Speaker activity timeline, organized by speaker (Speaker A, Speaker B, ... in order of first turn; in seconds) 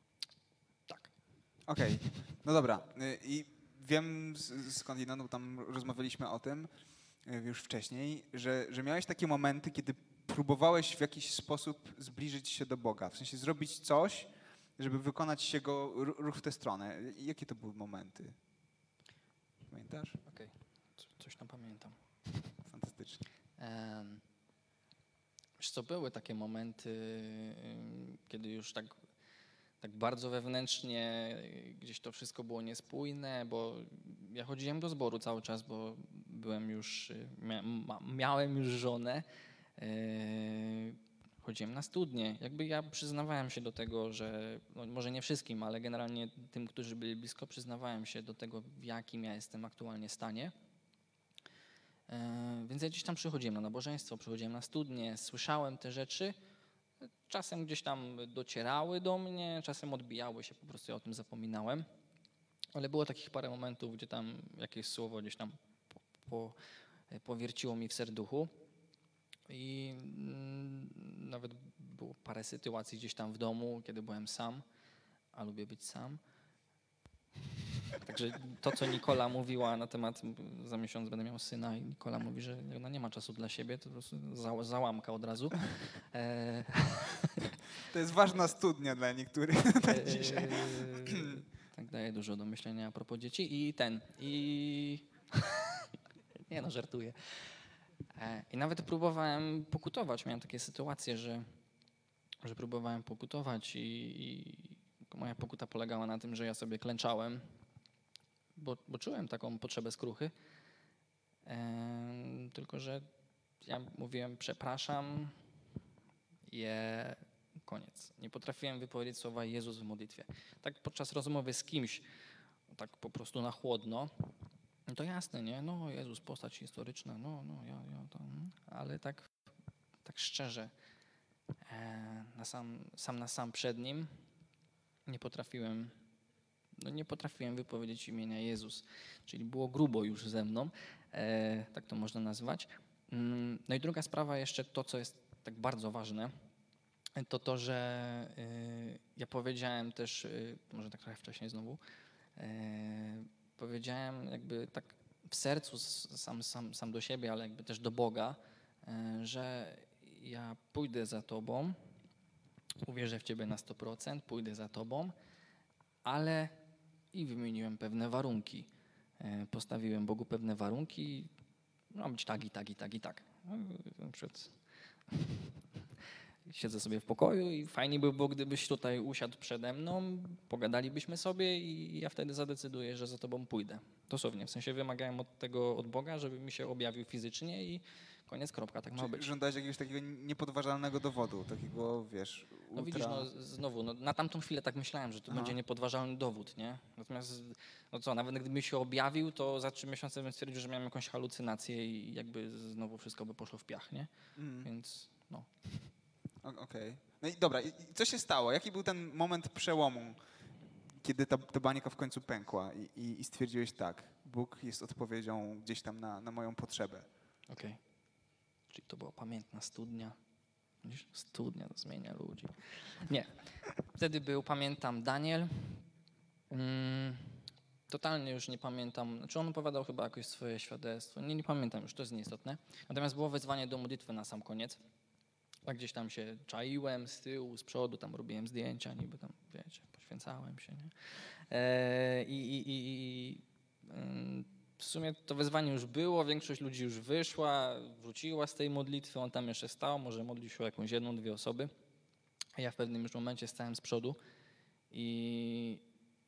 Speaker A: 0.9-1.1, 20.2-22.5, 23.6-24.2, 25.6-28.9, 29.8-39.2, 39.8-50.5, 52.1-56.3, 57.3-61.9, 62.7-65.5, 66.2-66.6, 67.1-68.5, 69.5-74.6, 75.3-76.2, 77.9-87.5, 89.8-95.9, 96.5-97.6, 98.2-101.5, 102.4-107.5, 108.5-110.3, 111.5-113.1, 113.6-115.4, 116.5-122.0, 122.7-124.1, 124.9-129.3, 130.0-130.7, 131.7-134.1, 135.1-135.9, 136.8-146.3, 147.2-151.8, 152.4-161.8, 162.8-165.1, 166.0-166.5, 167.1-171.3, 171.9-175.6, 176.5-189.3, 192.7-205.9, 217.5-217.8, 218.7-220.2, 220.8-225.8, 226.5-234.8, 235.7-251.7, 252.6-254.2, 254.9-255.8
Speaker B: 1.7-6.7, 7.2-18.4, 19.7-20.2, 22.6-23.2, 87.9-91.4, 188.9-193.3, 195.3-195.6, 204.4-204.7, 206.4-210.2, 211.0-217.1